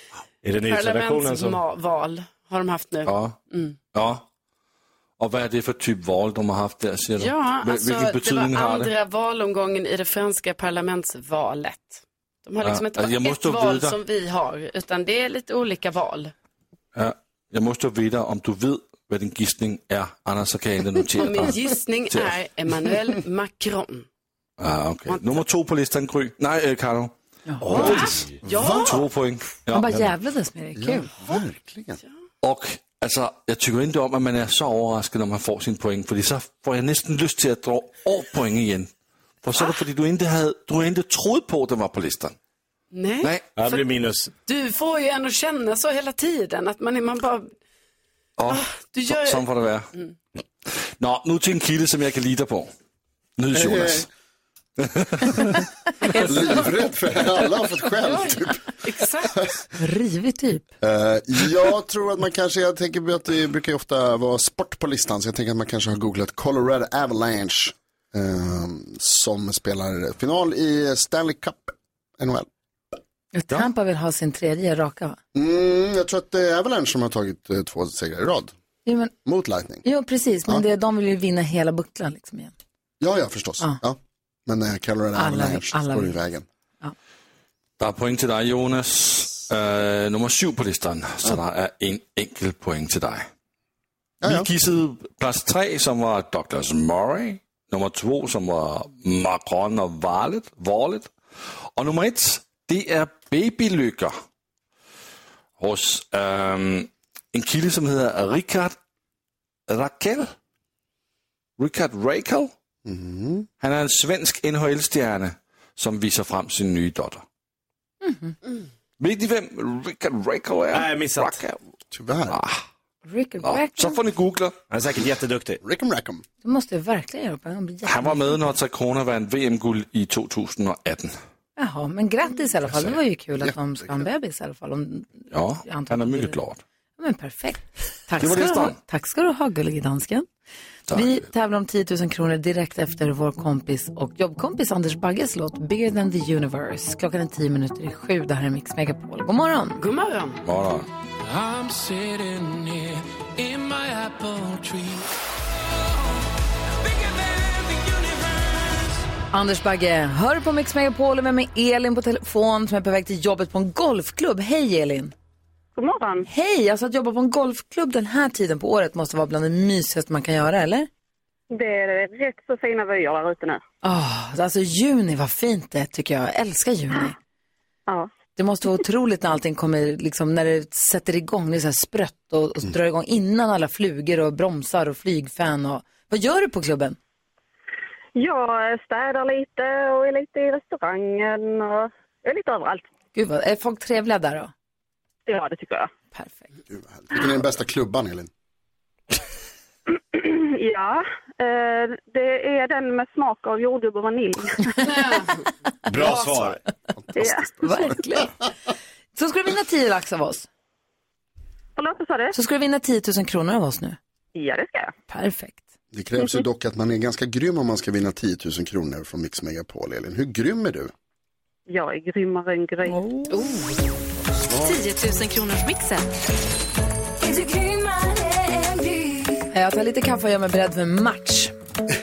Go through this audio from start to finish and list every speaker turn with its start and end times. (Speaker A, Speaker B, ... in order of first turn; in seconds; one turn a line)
Speaker A: 0.4-1.6
Speaker B: 0.6-3.8
Speaker C: 3.0-3.4
Speaker C: 3.9-4.2
Speaker C: 5.2-8.9
Speaker B: 7.2-16.3
Speaker C: 12.6-14.0
Speaker C: 16.9-22.3
Speaker B: 21.1-24.1
Speaker C: 24.6-27.1
Speaker B: 25.1-25.5
Speaker D: 27.5-28.0
Speaker C: 27.7-28.1
Speaker A: 27.7-28.4
Speaker B: 27.8-29.1
Speaker E: 28.5-28.9
Speaker C: 28.6-30.1
Speaker D: 29.7-31.1
Speaker E: 30.8-32.0
Speaker C: 32.4-38.9
Speaker C: 39.4-42.3
Speaker B: 42.9-43.9
Speaker C: 43.2-43.5
Speaker A: 43.5-44.3
Speaker B: 44.4-47.5
Speaker C: 48.4-49.9
Speaker B: 48.5-50.1
Speaker C: 50.7-52.7
Speaker C: 53.4-54.1
Speaker E: 53.5-54.0
Speaker C: 54.8-55.6
Speaker E: 56.2-58.6
Speaker B: 58.0-59.4
Speaker D: 59.8-60.7
Speaker E: 60.8-72.5
Speaker D: 73.3-75.2
Speaker E: 75.3-78.5
Speaker D: 78.8-79.1
Speaker E: 79.2-79.8
Speaker D: 79.8-82.5
Speaker E: 83.0-86.4
Speaker D: 85.2-86.2
Speaker C: 87.8-93.3
Speaker E: 94.2-94.5
Speaker C: 94.2-101.1
Speaker C: 101.8-104.2
Speaker C: 105.6-108.8
Speaker C: 109.7-110.3
Speaker C: 111.6-112.5
Speaker E: 112.8-113.5
Speaker C: 113.6-117.2
Speaker D: 118.0-118.3
Speaker C: 119.0-121.6
Speaker A: 120.7-121.4
Speaker E: 121.9-122.4
Speaker C: 122.3-122.6
Speaker D: 123.0-124.0
Speaker C: 123.4-124.6
Speaker A: 124.7-125.6
Speaker E: 125.6-126.2
Speaker D: 126.4-128.4
Speaker C: 127.8-131.2
Speaker D: 131.6-136.4
Speaker E: 133.4-134.1
Speaker C: 135.3-136.6
Speaker D: 137.0-140.3
Speaker C: 138.2-138.8
Speaker C: 140.9-141.2
Speaker D: 140.9-149.8
Speaker B: 149.8-150.4
Speaker C: 150.4-150.9
Speaker F: 151.2-155.1
Speaker F: 156.8-158.9
Speaker D: 159.3-165.1
Speaker G: 165.8-166.2
Speaker D: 166.2-170.9
Speaker G: 171.5-173.6
Speaker D: 173.8-177.1
Speaker D: 178.3-187.0
Speaker G: 188.2-192.9
Speaker D: 193.1-194.5
Speaker G: 195.3-195.9
Speaker D: 196.1-196.5
Speaker E: 196.7-198.3
Speaker G: 200.0-204.8
Speaker B: 204.8-205.3
Speaker A: 205.9-206.6
Speaker E: 207.1-208.2
Speaker G: 207.2-207.5
Speaker D: 207.6-208.3
Speaker D: 209.1-210.5
Speaker G: 211.8-212.3
Speaker D: 212.3-214.0
Speaker G: 214.3-214.9
Speaker D: 215.1-215.6
Speaker E: 215.9-220.9
Speaker G: 221.7-223.0
Speaker D: 222.9-223.4
Speaker H: 223.3-223.8
Speaker E: 224.5-224.8
Speaker H: 224.6-226.1
Speaker H: 227.2-229.4
Speaker D: 229.5-231.5